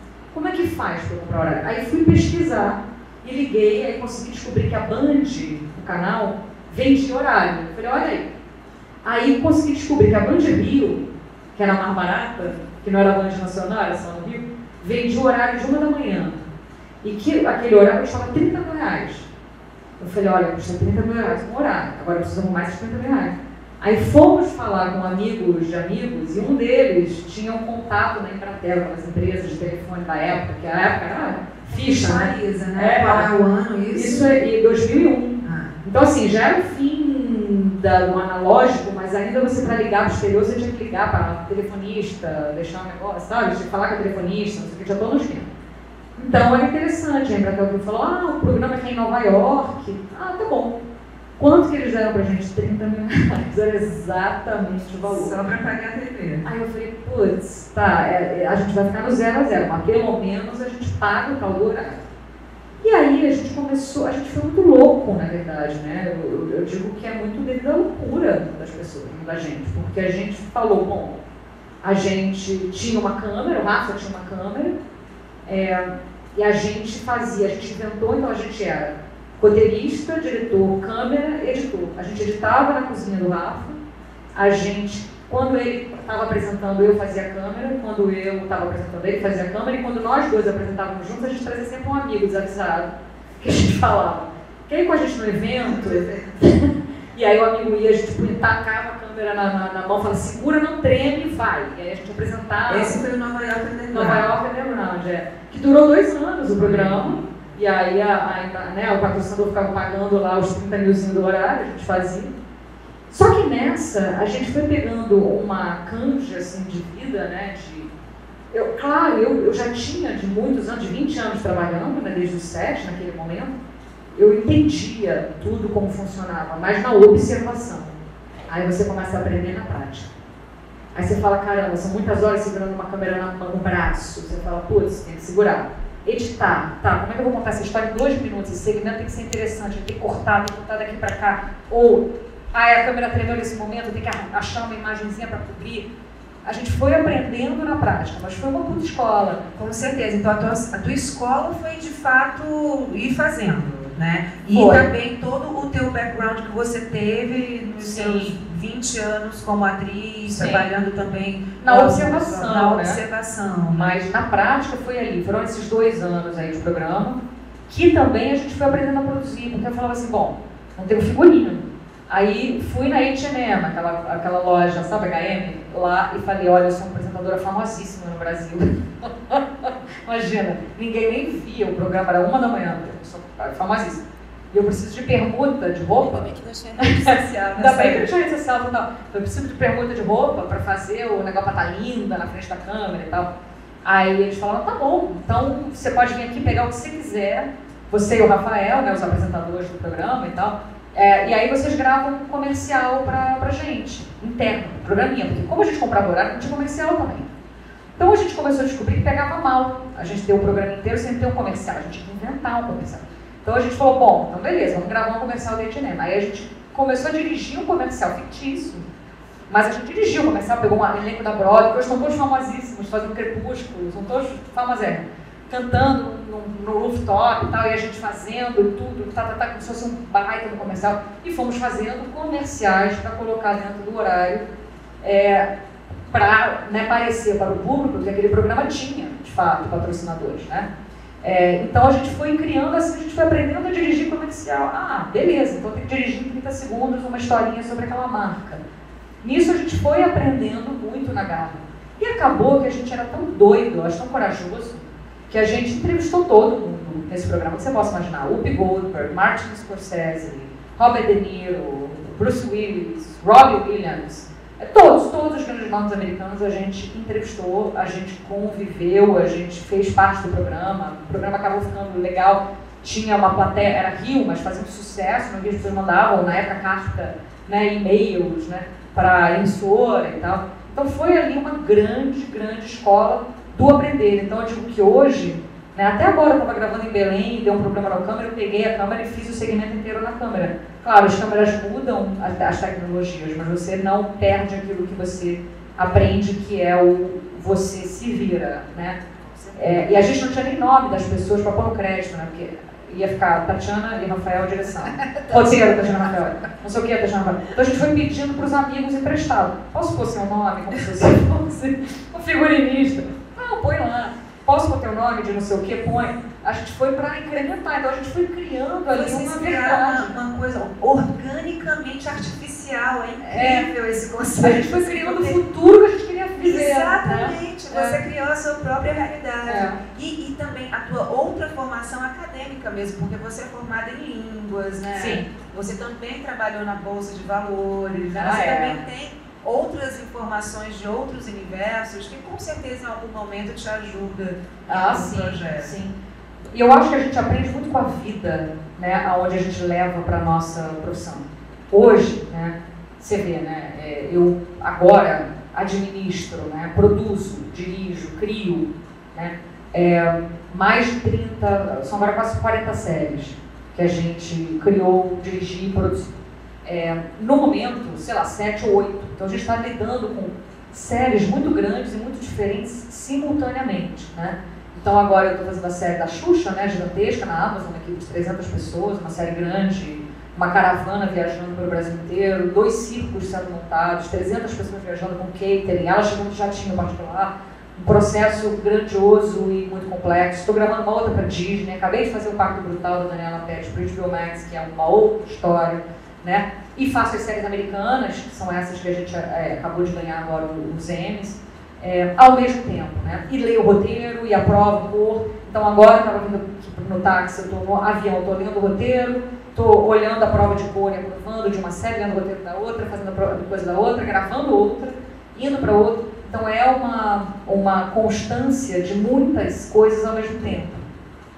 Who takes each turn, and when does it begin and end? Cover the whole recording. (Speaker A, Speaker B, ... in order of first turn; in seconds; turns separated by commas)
Speaker A: 0.3-8.3, Speaker A: 9.0-16.4, Speaker A: 17.0-19.3, Speaker A: 20.0-33.3, Speaker B: 31.7-34.3, Speaker A: 33.9-45.5, Speaker B: 35.4-35.7, Speaker A: 46.2-50.8, Speaker A: 51.4-55.4, Speaker B: 55.0-56.5, Speaker A: 56.4-62.1, Speaker A: 62.8-71.2, Speaker A: 71.8-74.8, Speaker A: 75.5-83.8, Speaker A: 84.3-103.0, Speaker B: 95.6-96.4, Speaker B: 102.7-104.3, Speaker A: 103.9-112.3, Speaker B: 106.6-107.6, Speaker A: 113.1-117.9, Speaker A: 118.5-123.5, Speaker A: 124.1-128.0, Speaker A: 128.5-130.1, Speaker A: 130.9-145.9, Speaker A: 146.4-149.4, Speaker B: 149.6-164.0, Speaker A: 154.5-154.9, Speaker A: 157.8-158.4, Speaker A: 160.3-160.7, Speaker A: 161.6-163.0, Speaker A: 163.7-186.3, Speaker B: 186.0-188.1, Speaker A: 186.8-193.3, Speaker A: 193.8-207.3, Speaker A: 208.0-218.9, Speaker A: 219.5-234.4, Speaker A: 235.0-235.5, Speaker A: 236.1-240.7, Speaker A: 241.2-248.6, Speaker A: 249.2-299.0, Speaker B: 299.2-300.1, Speaker A: 299.6-320.2, Speaker B: 304.9-306.1, Speaker B: 318.9-325.4, Speaker A: 323.2-323.7, Speaker A: 324.4-328.0, Speaker B: 326.4-345.7, Speaker A: 329.5-329.8, Speaker A: 334.9-335.3, Speaker A: 337.9-338.8, Speaker A: 344.7-345.9, Speaker A: 346.5-420.8